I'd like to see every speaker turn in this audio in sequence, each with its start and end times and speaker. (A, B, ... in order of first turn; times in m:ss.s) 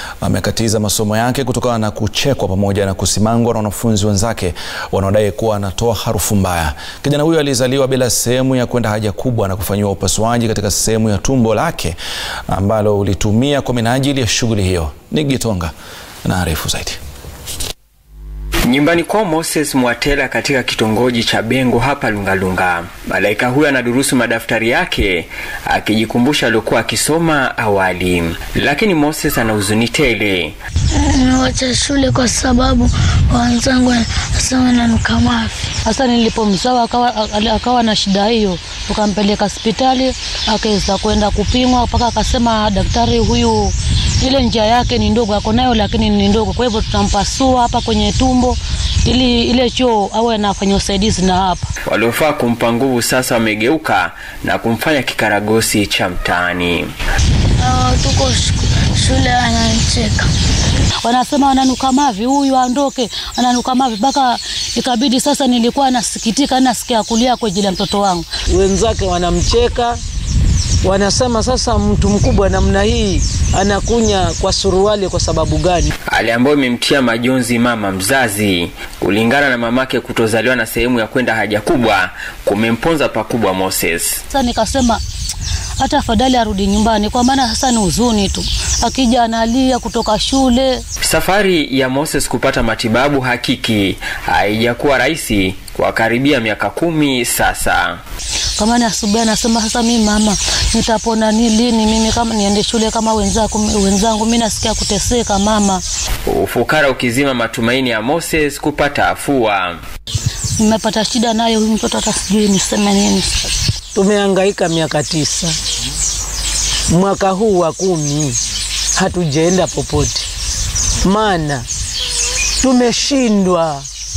0:00.2-0:12.0 A
0:12.5-0:15.7 A
0:16.2-0:17.0 A
0:18.6-0:30.6 B
0:30.9-0:35.7 C
0:35.8-0:51.7 D
0:51.9-0:56.9 B
0:57.6-1:00.3 C
1:01.0-1:08.3 D
1:08.5-1:10.0 E
1:10.8-1:15.9 E
1:16.1-1:24.2 B
1:24.3-1:25.0 D
1:25.8-1:30.8 D
1:31.0-1:38.0 B
1:38.6-1:45.8 D
1:46.3-1:49.8 B
1:50.6-1:53.4 D
1:53.9-1:55.6 E
1:56.9-1:58.4 E
1:59.0-2:00.3 E
2:01.0-2:01.7 E
2:02.6-2:03.9 E